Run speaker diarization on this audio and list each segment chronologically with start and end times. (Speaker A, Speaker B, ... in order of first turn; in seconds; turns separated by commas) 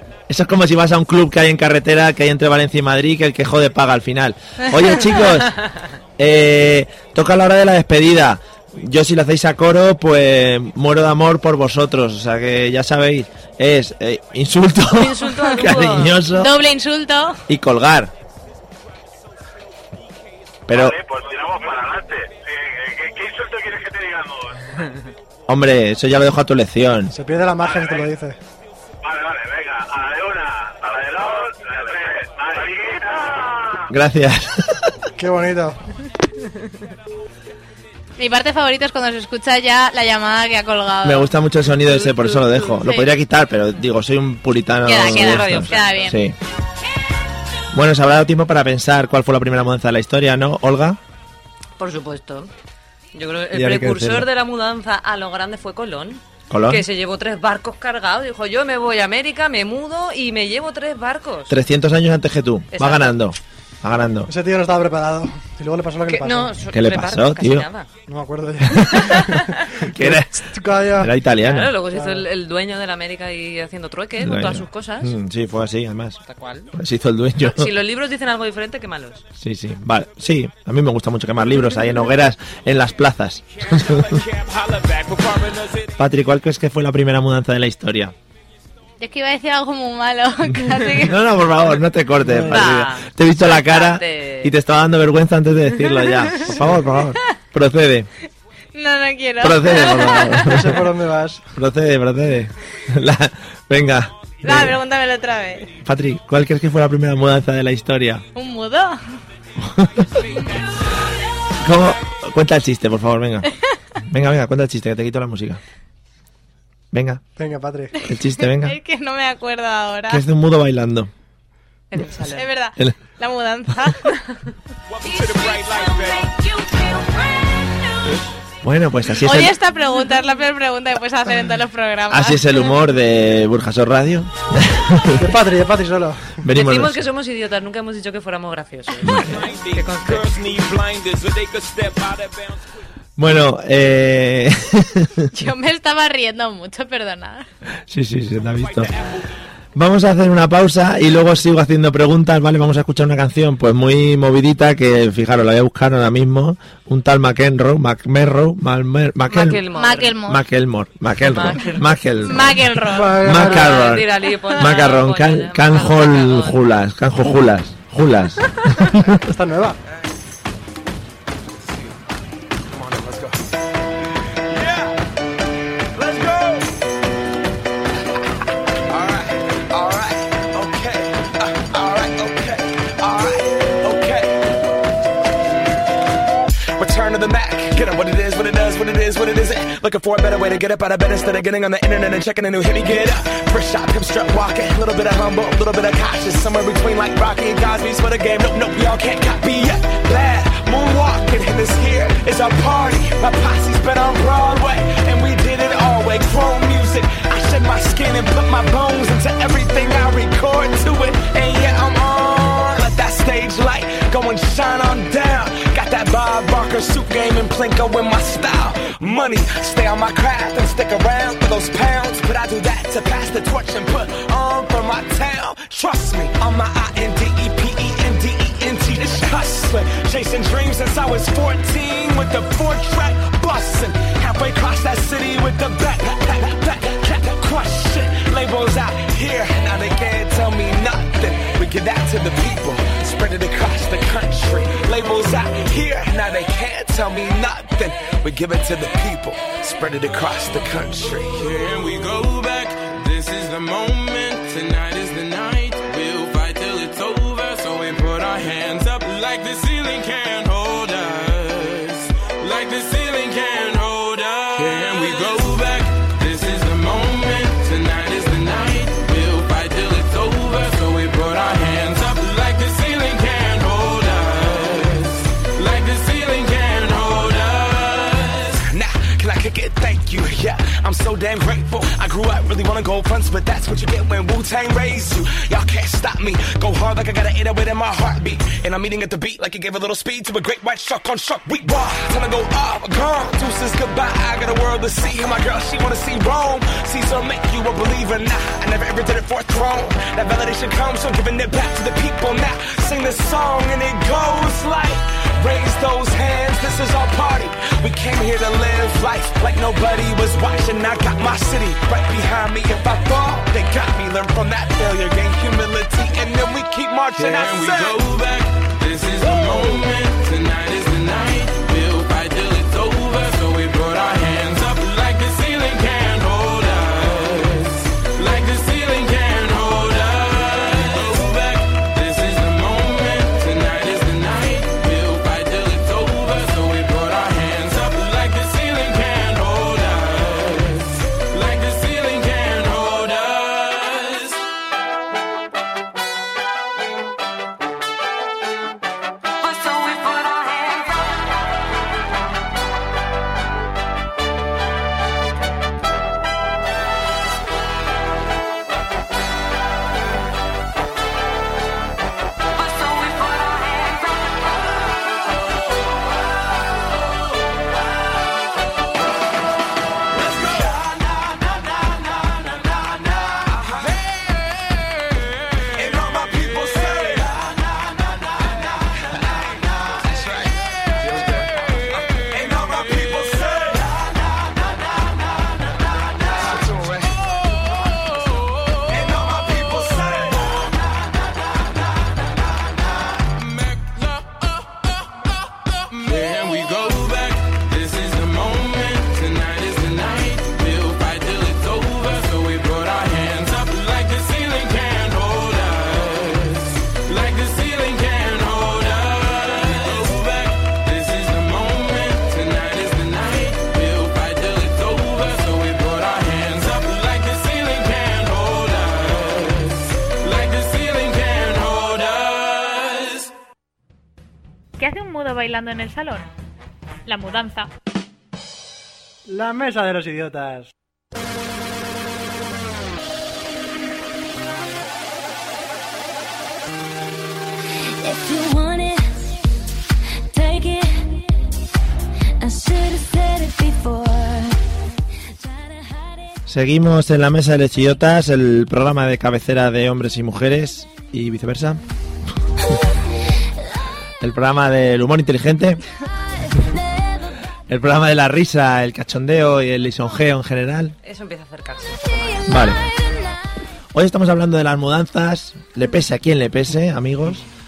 Speaker A: 0.3-5.6, Speaker A: 6.2-16.5, Speaker B: 14.9-16.2, Speaker C: 16.3-17.4, Speaker A: 17.5-18.1, Speaker A: 20.7-21.0, Speaker D: 20.7-24.8, Speaker A: 25.5-27.1, Speaker E: 27.1-28.4, Speaker D: 27.6-28.1, Speaker D: 29.0-33.9, Speaker A: 33.9-35.0, Speaker E: 35.2-35.8, Speaker C: 38.2-41.3, Speaker A: 41.0-46.4, Speaker B: 42.0-42.8, Speaker C: 42.8-43.1, Speaker C: 44.8-46.2, Speaker B: 45.0-46.2, Speaker A: 47.7-51.0, Speaker B: 51.8-52.5, Speaker B: 53.1-61.5, Speaker A: 53.5-54.3, Speaker A: 56.5-56.8, Speaker A: 61.5-64.3, Speaker B: 62.7-63.2, Speaker E: 64.3-66.5, Speaker B: 66.0-67.9, Speaker A: 66.7-67.7, Speaker E: 68.1-71.1, Speaker A: 68.7-69.1, Speaker B: 69.1-69.7, Speaker A: 69.9-71.8, Speaker B: 71.4-75.1, Speaker E: 71.9-72.2, Speaker A: 74.2-76.2, Speaker B: 76.3-76.7, Speaker A: 76.7-77.7, Speaker B: 77.4-79.2, Speaker A: 79.4-84.2, Speaker F: 84.0-85.9, Speaker A: 86.0-88.1, Speaker C: 89.0-91.2, Speaker A: 91.0-98.1, Speaker E: 92.2-92.7, Speaker B: 92.5-94.5, Speaker C: 98.7-100.4, Speaker A: 99.4-100.9, Speaker E: 100.4-101.4, Speaker A: 101.5-104.8, Speaker C: 104.4-105.7, Speaker A: 105.8-108.2, Speaker C: 108.3-109.0, Speaker A: 109.6-110.2, Speaker A: 111.6-113.5, Speaker A: 114.0-115.6, Speaker A: 116.9-117.2, Speaker E: 117.4-117.9, Speaker C: 118.0-120.2, Speaker A: 118.0-118.8, Speaker A: 120.1-121.1, Speaker B: 121.9-122.5, Speaker C: 122.3-124.2, Speaker F: 124.9-126.3, Speaker G: 125.0-128.2, Speaker A: 128.6-129.6, Speaker C: 129.2-132.7, Speaker A: 132.1-135.3, Speaker E: 135.2-136.4, Speaker A: 136.4-137.0, Speaker B: 136.5-140.4, Speaker A: 139.0-139.4, Speaker F: 139.4-142.6, Speaker A: 143.2-145.3, Speaker C: 145.3-147.4, Speaker A: 147.9-148.9, Speaker F: 148.6-149.2, Speaker A: 149.7-159.6, Speaker B: 159.3-160.2, Speaker C: 159.7-160.4, Speaker A: 160.2-169.2, Speaker B: 161.2-162.0, Speaker C: 162.2-163.2, Speaker E: 162.9-163.9, Speaker B: 163.3-166.6, Speaker E: 169.2-169.8, Speaker F: 172.7-173.4, Speaker F: 174.5-174.9, Speaker F: 175.9-176.7, Speaker F: 178.9-184.5, Speaker F: 186.8-251.6, Speaker H: 251.4-278.6, Speaker F: 278.7-318.0, Speaker H: 317.2-344.4, Speaker G: 349.5-350.9, Speaker G: 362.7-364.0, Speaker F: 370.3-370.8, Speaker F: 373.4-374.0, Speaker F: 375.7-377.6, Speaker F: 380.0-381.5, Speaker F: 382.3-384.1, Speaker F: 386.3-387.2, Speaker F: 388.9-390.7, Speaker H: 393.3-423.3, Speaker I: 424.8-426.3, Speaker I: 427.1-427.7, Speaker E: 429.3-430.7, Speaker G: 438.0-439.3, Speaker G: 440.3-441.2, Speaker G: 442.4-444.6, Speaker G: 445.4-446.2, Speaker A: 446.5-451.8, Speaker A: 454.2-455.8, Speaker G: 456.6-456.8, Speaker A: 457.7-460.9, Speaker B: 461.0-462.4, Speaker A: 462.5-462.8, Speaker A: 463.9-467.4